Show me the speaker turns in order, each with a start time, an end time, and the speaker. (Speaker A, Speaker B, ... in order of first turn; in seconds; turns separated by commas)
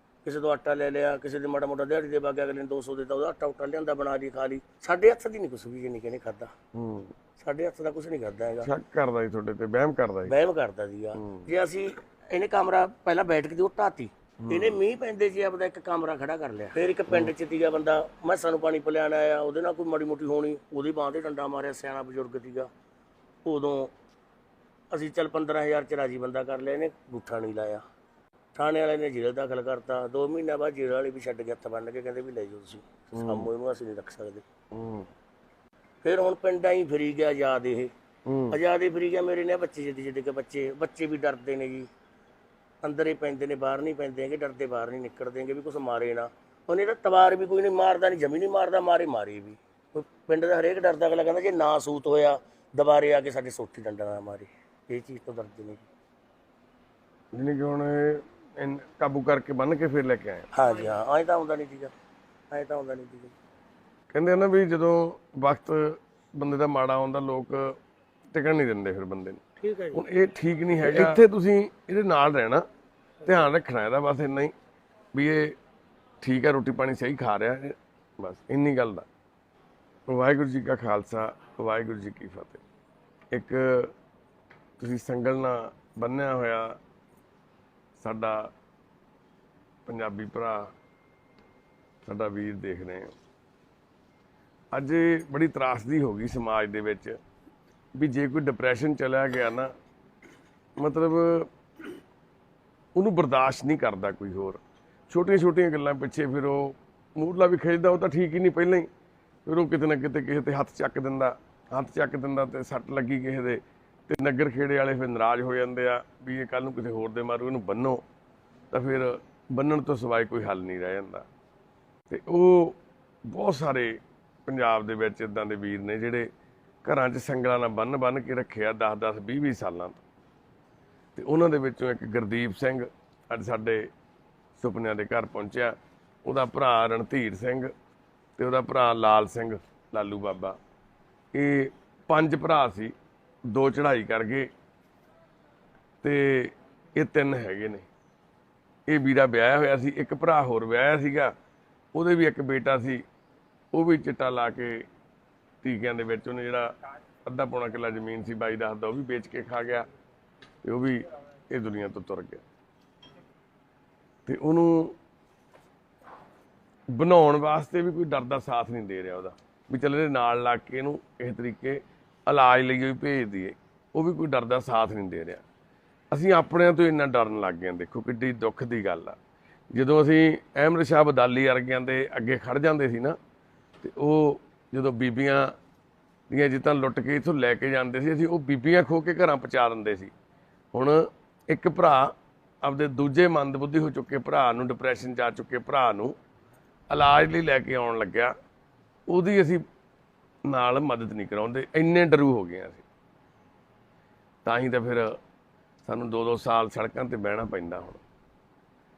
Speaker A: 0.2-6.5, Speaker B: 6.8-7.1, Speaker A: 7.4-8.7, Speaker B: 8.6-10.3, Speaker A: 10.3-22.7, Speaker B: 11.2-11.5, Speaker B: 14.4-14.8, Speaker A: 23.4-23.9, Speaker A: 24.9-27.8, Speaker A: 28.6-34.4, Speaker B: 33.1-33.5, Speaker B: 34.7-35.1, Speaker A: 36.0-37.9, Speaker B: 38.3-38.6, Speaker A: 38.5-41.9, Speaker A: 42.8-55.9, Speaker B: 57.3-60.5, Speaker A: 60.5-61.9, Speaker A: 62.5-63.4, Speaker B: 64.1-67.8, Speaker B: 68.3-69.4, Speaker A: 69.6-70.0, Speaker B: 69.9-72.7, Speaker A: 70.8-71.2, Speaker B: 73.2-74.5, Speaker B: 75.1-75.6, Speaker B: 76.2-79.1, Speaker B: 80.1-82.6, Speaker B: 83.3-83.9, Speaker B: 84.8-86.8, Speaker B: 88.0-88.5, Speaker B: 89.9-90.7, Speaker B: 92.0-93.1, Speaker B: 94.7-97.2, Speaker B: 98.0-99.7, Speaker B: 100.8-101.5, Speaker B: 103.0-108.9, Speaker B: 109.5-118.0, Speaker B: 118.7-121.3, Speaker B: 122.1-126.3, Speaker B: 126.8-130.0, Speaker B: 131.2-133.9, Speaker B: 134.6-137.7, Speaker B: 138.4-140.6, Speaker B: 141.3-142.9, Speaker B: 143.5-144.5, Speaker B: 146.0-147.9, Speaker B: 148.9-151.3, Speaker B: 151.9-153.1, Speaker B: 153.7-154.9, Speaker B: 155.6-156.7, Speaker B: 157.2-159.9, Speaker B: 160.6-162.4, Speaker B: 164.3-165.0, Speaker B: 166.9-175.4, Speaker B: 176.1-179.2, Speaker B: 179.7-183.2, Speaker B: 183.8-185.5, Speaker B: 186.3-190.1, Speaker B: 190.7-196.2, Speaker B: 196.9-198.3, Speaker B: 199.1-199.7, Speaker B: 200.4-202.8, Speaker B: 204.4-205.2, Speaker B: 205.8-208.0